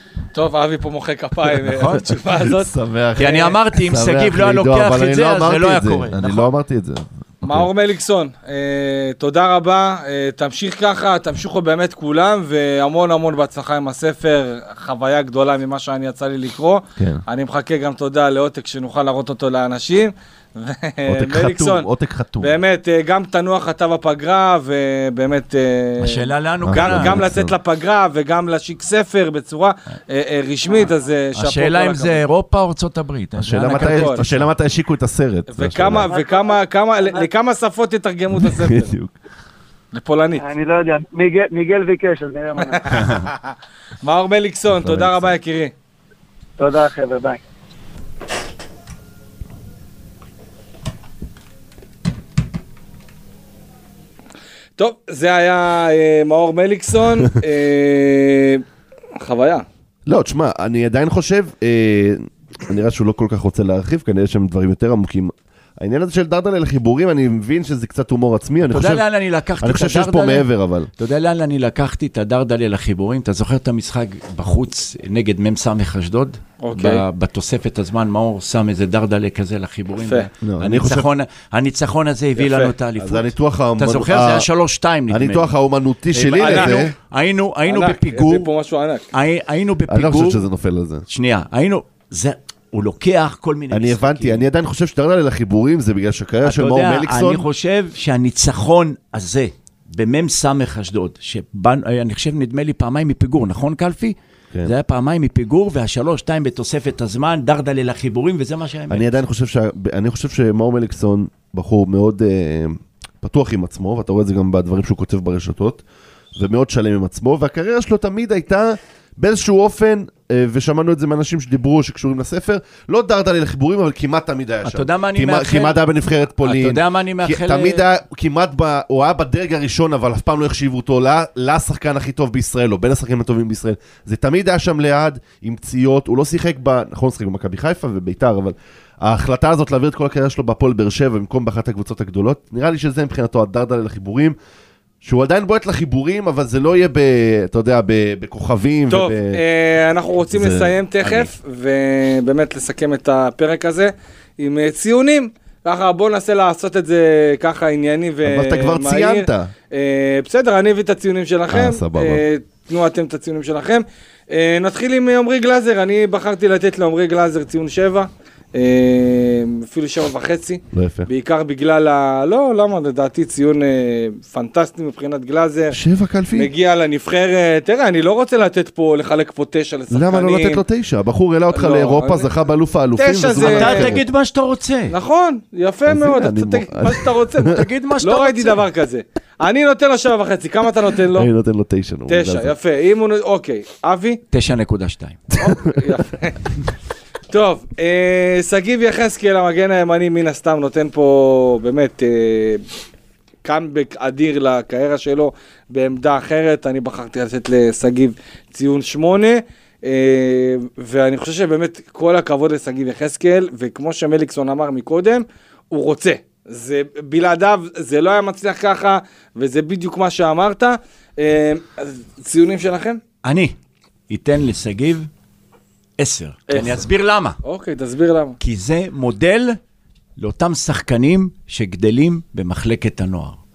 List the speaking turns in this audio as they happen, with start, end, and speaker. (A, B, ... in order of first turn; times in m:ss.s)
0:00.3-0:02.7 A
0:01.7-0:02.2 B
0:02.4-0:07.7 C
0:03.2-0:06.5 B
0:07.4-0:21.9 A
0:21.1-0:22.6 C
0:22.4-0:32.2 A
0:26.0-0:27.3 B
0:26.6-0:27.5 C
0:31.4-0:34.5 B
0:33.4-0:36.1 C
0:33.7-0:34.2 A
0:35.5-0:38.9 A
0:35.9-0:37.3 D
0:38.4-0:39.1 C
0:39.9-0:40.4 A
0:40.4-0:43.1 D
0:42.6-0:45.7 A
0:44.7-0:45.3 C
0:46.6-0:47.4 D
0:54.8-0:58.6 A
0:59.2-0:59.6 A
1:00.1-1:09.0 C
1:08.7-1:25.5 B
1:09.6-1:10.9 C
1:16.6-1:17.0 A
1:20.4-1:21.1 C
1:22.4-1:22.7 A
1:23.0-1:24.5 C
1:25.1-1:26.9 C
1:26.1-1:28.5 B
1:26.4-1:26.9 A
1:27.7-1:29.0 A
1:29.1-1:30.4 B
1:29.9-1:31.1 C
1:31.1-1:34.4 B
1:33.7-1:37.4 C
1:36.4-1:49.2 B
1:48.9-1:55.8 C
1:56.4-2:24.4 C
2:04.6-2:05.8 B
2:06.4-2:07.8 B
2:25.0-2:29.4 C
2:28.9-2:55.8 A
2:30.3-2:31.2 C
2:38.2-2:39.5 C
2:41.5-2:42.2 C
2:50.7-2:51.1 C
2:55.7-2:56.5 C
2:56.3-3:00.6 A
2:59.9-3:04.0 C
3:01.5-3:02.3 A
3:03.0-3:04.0 A
3:03.4-3:05.0 B
3:04.9-3:11.3 A
3:05.9-3:07.5 C
3:07.5-3:08.6 B
3:11.1-3:12.5 C
3:12.1-3:14.2 A
3:14.3-3:15.3 B
3:15.4-3:16.4 A
3:17.3-3:22.6 A
3:23.4-3:43.0 A
3:43.2-3:43.6 B
3:44.1-3:45.1 B
3:46.0-3:47.4 B
3:46.5-3:46.8 A
3:47.4-3:48.4 A
3:48.4-3:49.6 B
3:50.2-3:53.4 B